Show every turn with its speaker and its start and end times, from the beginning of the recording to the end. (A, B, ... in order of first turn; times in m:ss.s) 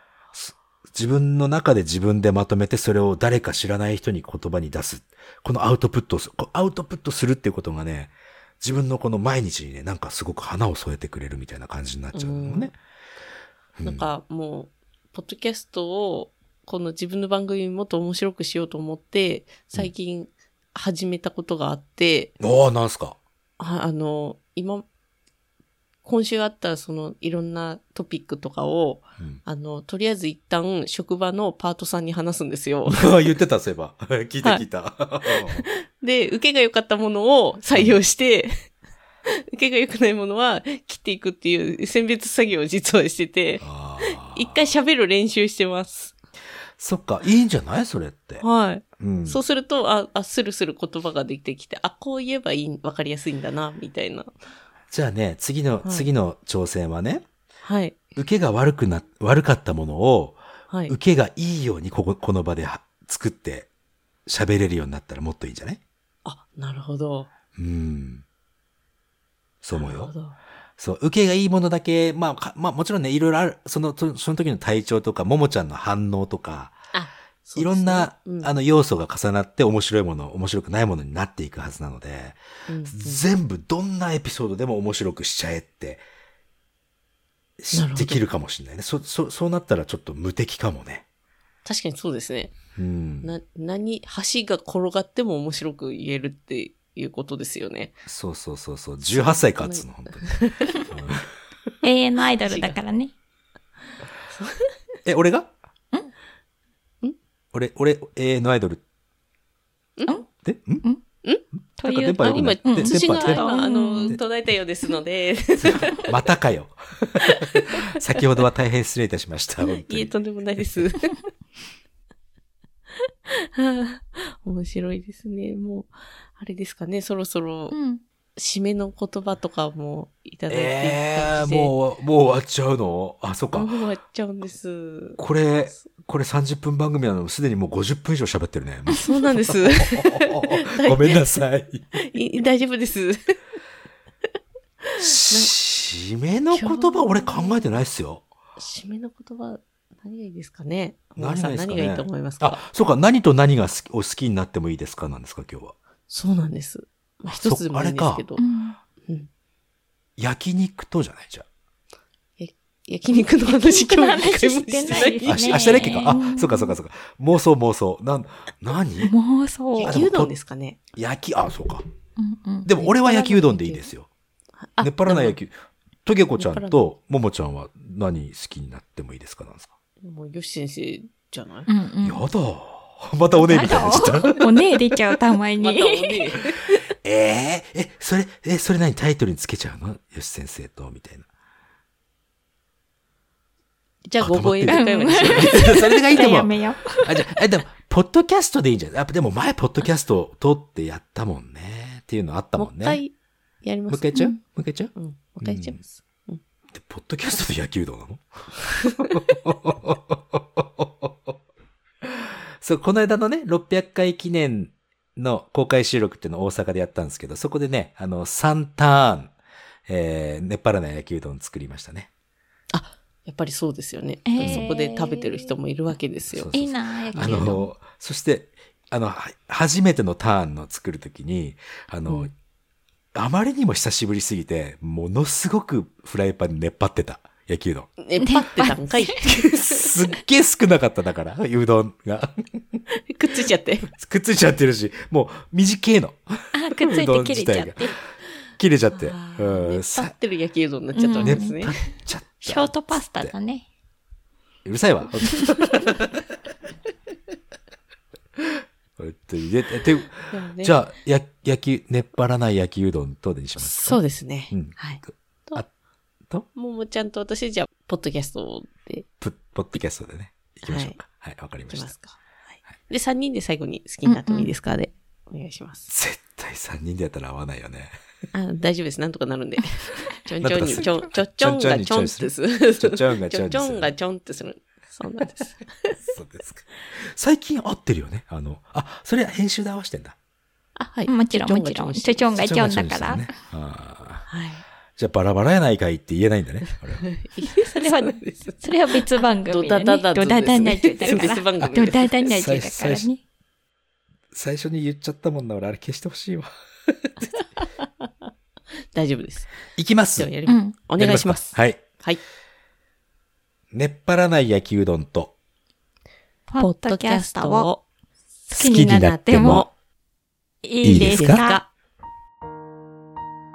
0:00.3-0:12.7 A
0:12.1-0:12.7 B
0:13.8-0:14.1 A
0:13.8-0:22.3 B
0:22.4-0:23.2 A
0:23.6-0:24.8 B
0:26.0-0:33.1 B
0:32.9-0:35.6 A
0:35.4-0:38.5 B
0:39.5-0:46.1 B
0:43.6-0:44.6 A
0:46.8-0:48.4 A
0:48.4-0:54.3 B
0:49.0-0:49.4 A
0:54.9-0:57.2 A
0:55.8-0:56.1 B
0:57.6-0:58.0 B
0:58.2-1:03.7 A
1:00.7-1:00.9 B
1:04.2-1:05.8 A
1:06.2-1:07.3 B
1:07.5-1:08.2 A
1:09.6-1:10.1 A
1:09.7-1:10.4 B
1:10.8-1:16.8 A
1:16.9-1:18.5 B
1:17.6-1:26.0 A
1:22.7-1:23.2 B
1:27.6-1:31.0 A
1:27.7-1:28.2 B
1:31.6-1:32.5 B
1:32.8-1:33.3 A
1:33.2-1:38.0 B
1:38.1-1:40.3 A
1:39.1-1:40.8 B
1:40.9-1:41.3 A
1:41.8-1:43.1 C
1:42.4-1:42.8 B
1:44.3-1:44.7 B
1:45.0-1:45.5 A
1:47.5-1:48.8 A
1:50.0-1:50.2 B
1:50.4-1:50.8 A
1:51.8-1:54.2 C
1:51.8-1:53.5 A
1:52.2-1:56.1 B
1:55.6-2:00.1 A
1:57.2-1:57.9 B
1:59.8-2:01.1 B
2:03.3-2:07.7 B
2:07.7-2:08.0 C
2:08.4-2:11.7 B
2:10.5-2:13.7 A
2:13.5-2:15.2 B
2:15.2-2:22.0 A
2:19.0-2:21.4 B
2:21.9-2:23.3 B
2:24.8-2:25.5 B
2:25.0-2:28.2 A
2:26.5-2:27.6 B
2:28.6-2:32.6 B
2:31.2-2:35.8 A
2:36.1-2:38.4 B
2:37.3-2:38.2 A
2:38.4-2:38.8 C
2:40.2-2:41.5 A
2:42.4-2:46.1 B
2:43.4-2:46.8 C
2:45.2-2:49.1 A
2:49.0-2:50.0 C
2:49.8-2:50.8 B
2:49.8-2:50.3 A
2:50.9-2:51.8 A
2:52.2-2:52.7 C
2:52.6-2:54.1 A
2:52.7-2:53.9 B
2:54.6-2:55.4 B
2:54.8-2:55.5 A
2:56.0-2:59.7 A
2:56.4-2:56.8 B
3:00.0-3:01.7 B
3:01.7-3:02.2 C
3:02.0-3:04.5 A
3:03.4-3:06.4 C
3:03.6-3:04.4 B
3:05.6-3:06.8 B
3:07.0-3:11.3 A
3:14.1-3:15.8 B
3:14.2-3:23.0 A
3:14.7-3:17.2 C
3:22.6-3:24.2 B
3:23.9-3:25.8 A
3:24.1-3:24.4 C
3:24.9-3:26.4 B
3:26.7-3:31.4 A
3:28.8-3:29.1 B
3:32.0-3:39.3 A
3:39.9-3:42.1 A
3:42.7-3:46.5 B
3:44.3-3:45.5 C
3:44.4-3:44.7 A
3:46.3-3:52.3 A
3:46.5-3:47.7 C
3:47.1-3:47.5 B
3:53.1-3:57.9 A
3:58.0-3:59.9 B
3:58.2-3:59.1 C
3:59.4-4:02.8 A
4:03.1-4:03.9 B
4:03.9-4:07.9 A
4:06.5-4:08.0 C
4:08.6-4:10.1 A
4:08.9-4:11.9 B
4:11.0-4:11.5 C
4:11.2-4:13.3 A
4:12.4-4:13.6 C
4:14.6-4:16.2 A
4:19.0-4:25.7 A
4:20.3-4:20.7 B
4:23.6-4:25.6 B
4:26.5-4:29.1 B
4:29.2-4:31.9 A
4:30.6-4:31.0 B
4:31.7-4:35.9 B
4:34.0-4:34.5 C
4:35.9-4:37.9 A
4:38.3-4:46.0 B
4:40.4-4:43.9 A
4:46.1-4:50.2 A
4:50.8-4:52.4 B
4:51.1-4:53.3 C
4:52.3-4:54.3 A
4:54.3-4:54.6 B
4:55.0-4:57.0 A
4:57.0-5:02.4 B
4:57.6-5:03.2 C
5:02.3-5:03.1 A
5:04.3-5:07.3 A
5:07.8-5:08.1 B
5:08.9-5:09.5 B
5:09.8-5:10.3 A
5:10.1-5:12.2 B
5:10.4-5:10.8 C
5:11.0-5:11.8 A
5:13.7-5:15.3 A
5:16.5-5:17.7 C
5:16.6-5:17.8 B
5:18.5-5:19.6 C
5:18.5-5:19.6 A
5:19.3-5:19.7 B
5:20.6-5:21.6 C
5:20.8-5:21.4 A
5:20.9-5:21.7 B